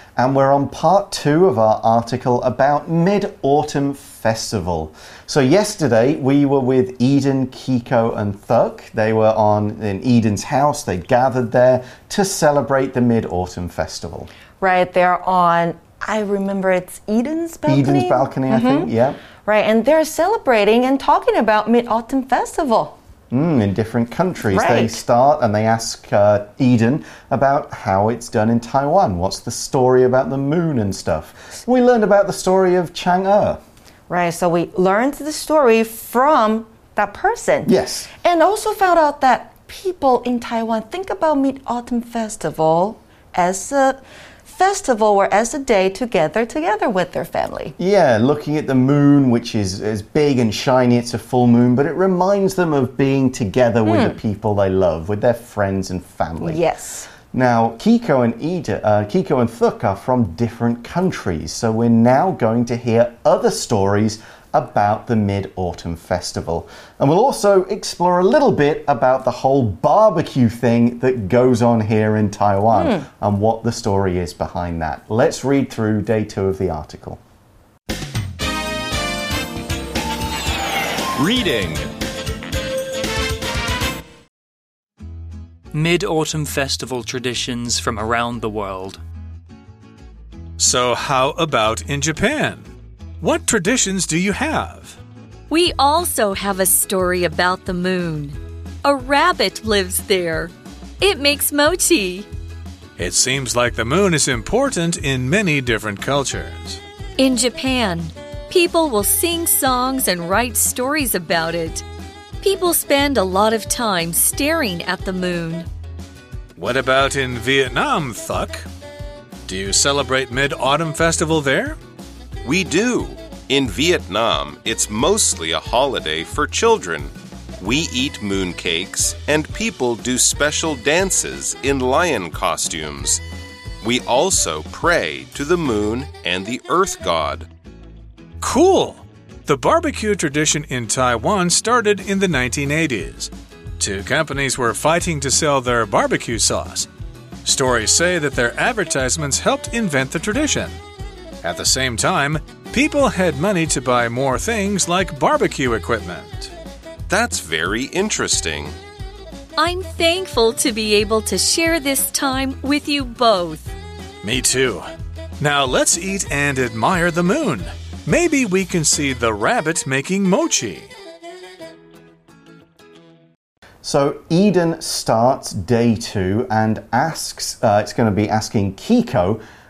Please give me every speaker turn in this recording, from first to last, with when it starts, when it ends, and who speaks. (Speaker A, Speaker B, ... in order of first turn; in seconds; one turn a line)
Speaker A: 0.2-14.3
Speaker B: 14.6-23.0
Speaker A: 17.7-19.2
Speaker A: 23.3-33.6
Speaker B: 24.5-25.0
Speaker B: 34.1-47.8
Speaker A: 37.6-38.1
Speaker A: 47.8-56.6
Speaker B: 53.8-54.2
Speaker B: 56.4-57.1
Speaker A: 57.3-77.2
Speaker B: 72.7-73.0
Speaker C: 81.2-81.9
Speaker D: 85.7-89.0
Speaker E: 90.6-95.0
Speaker F: 95.5-102.3
Speaker E: 103.0-106.8
Speaker F: 107.2-111.8
Speaker F: 112.4-115.7
Speaker E: 116.5-118.7
Speaker E: 119.5-121.8
Speaker C: 122.4-133.2
Speaker C: 133.8-137.5
Speaker E: 138.4-146.9
Speaker E: 147.4-150.7
Speaker E: 151.4-156.5
Speaker C: 157.1-158.7
Speaker F: 159.6-163.7
Speaker E: 164.2-164.9
Speaker E: 165.4-170.9
Speaker A: 173.8-179.4